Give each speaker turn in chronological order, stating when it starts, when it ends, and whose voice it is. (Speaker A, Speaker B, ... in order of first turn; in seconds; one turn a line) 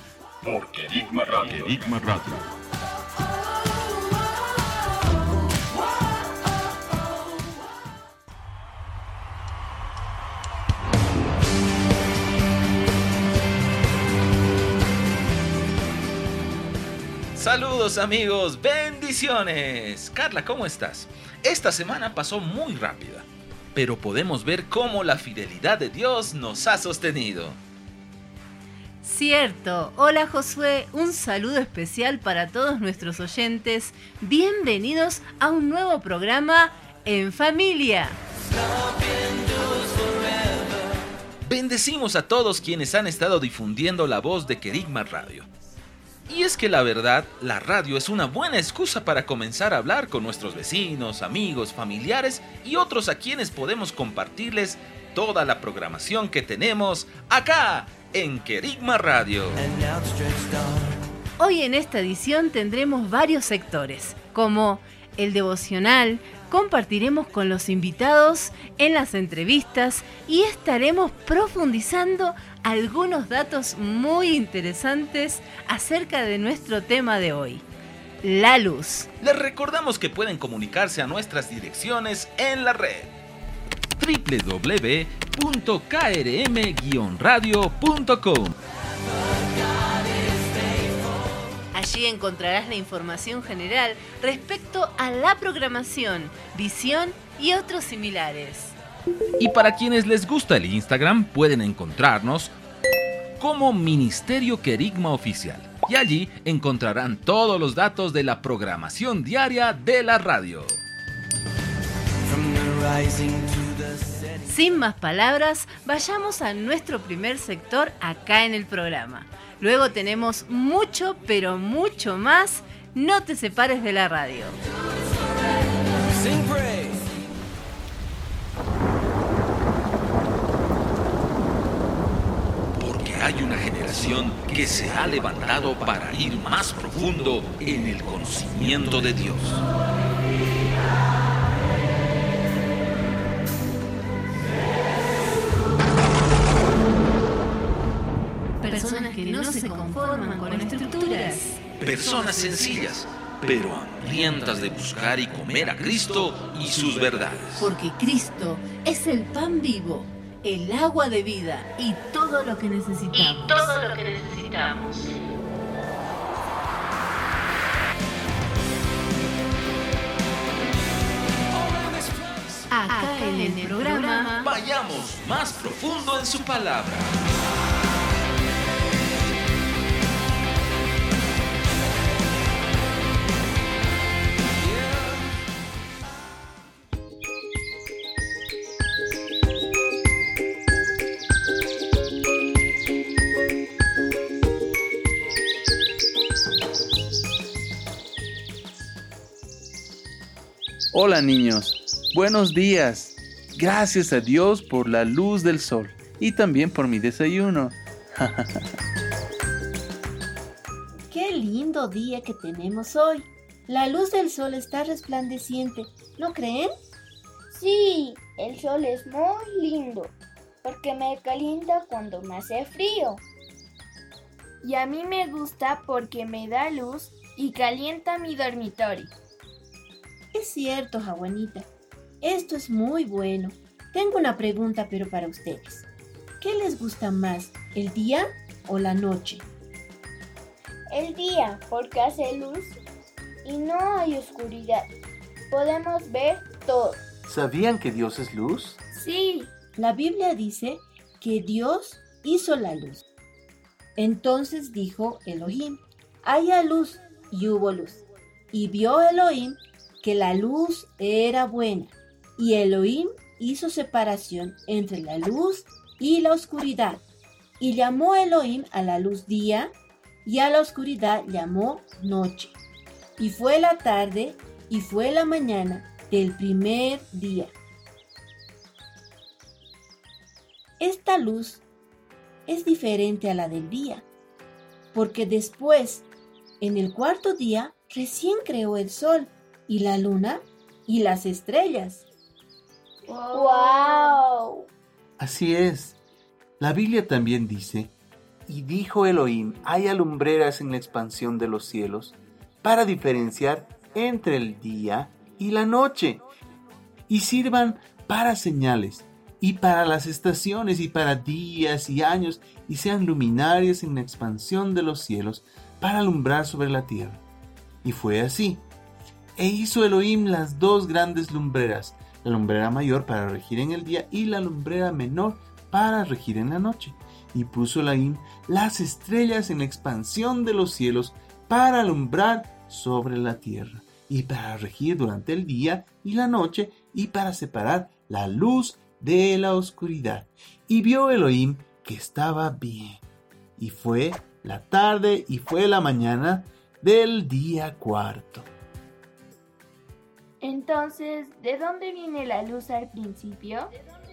Speaker A: 0.4-2.5
Speaker B: 17.3-27.6
Speaker C: 29.0-38.2
Speaker B: 41.5-45.5
Speaker B: 46.3-59.6
Speaker C: 61.4-77.6
Speaker C: 78.2-79.1
Speaker B: 79.2-83.1
Speaker B: 84.0-88.5
Speaker C: 91.7-98.7
Speaker B: 99.4-102.5
Speaker B: 103.4-110.8
Speaker C: 114.5-124.6
Speaker B: 132.8-139.6
Speaker C: 148.6-152.5
Speaker B: 151.8-157.7
Speaker C: 157.6-163.7
Speaker D: 163.1-165.1
Speaker C: 172.7-174.5
Speaker D: 172.8-174.4
Speaker B: 174.4-177.1
Speaker E: 200.9-208.6
Speaker F: 211.1-216.7
Speaker G: 217.5-223.2
Speaker G: 224.6-229.1
Speaker F: 230.3-231.7
Speaker F: 232.2-235.8
Speaker F: 236.4-239.4
Speaker G: 240.9-242.8
Speaker G: 243.4-244.9
Speaker G: 245.5-247.0
Speaker E: 247.3-248.8
Speaker G: 248.9-249.5
Speaker F: 249.8-253.0
Speaker F: 254.0-267.0
Speaker F: 267.6-269.7
Speaker F: 270.2-272.6
Speaker F: 273.2-277.5
Speaker F: 280.8-281.6
Speaker F: 282.5-284.0
Speaker F: 284.9-286.1
Speaker F: 286.6-292.1
Speaker G: 293.1-294.6
Speaker E: 295.2-296.0
Speaker E: 296.6-297.9
Speaker E: 298.5-306.2
Speaker E: 307.1-317.2
Speaker E: 317.8-318.6
Speaker E: 319.4-343.0
Speaker E: 343.6-348.5
Speaker G: 350.4-353.7